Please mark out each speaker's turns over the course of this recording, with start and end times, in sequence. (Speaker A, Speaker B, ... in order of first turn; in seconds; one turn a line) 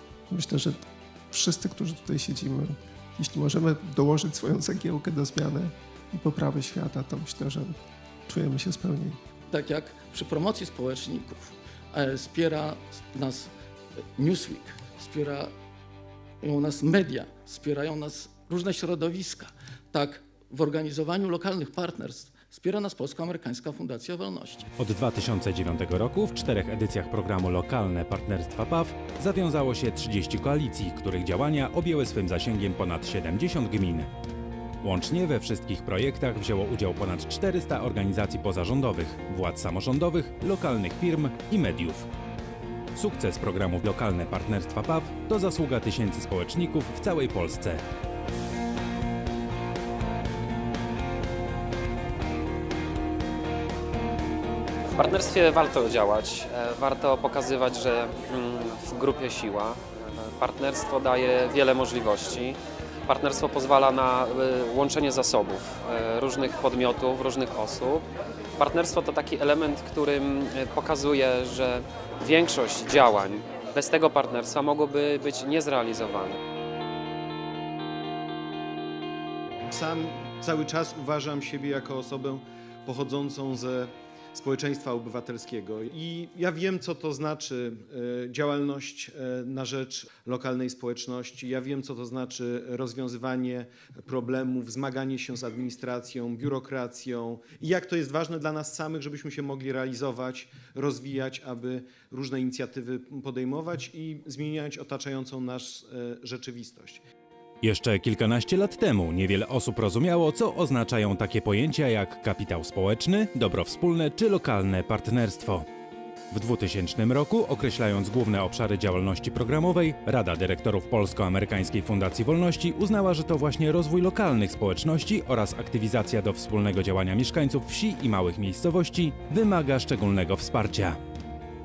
Speaker A: 0.3-9.2
Speaker B: 9.5-13.5
Speaker B: 14.2-15.5
Speaker B: 16.4-24.7
Speaker C: 24.8-34.1
Speaker C: 34.8-42.1
Speaker C: 43.0-47.8
Speaker D: 55.0-68.1
Speaker D: 68.6-76.4
Speaker E: 79.7-107.0
Speaker C: 107.6-115.7
Speaker C: 116.3-131.0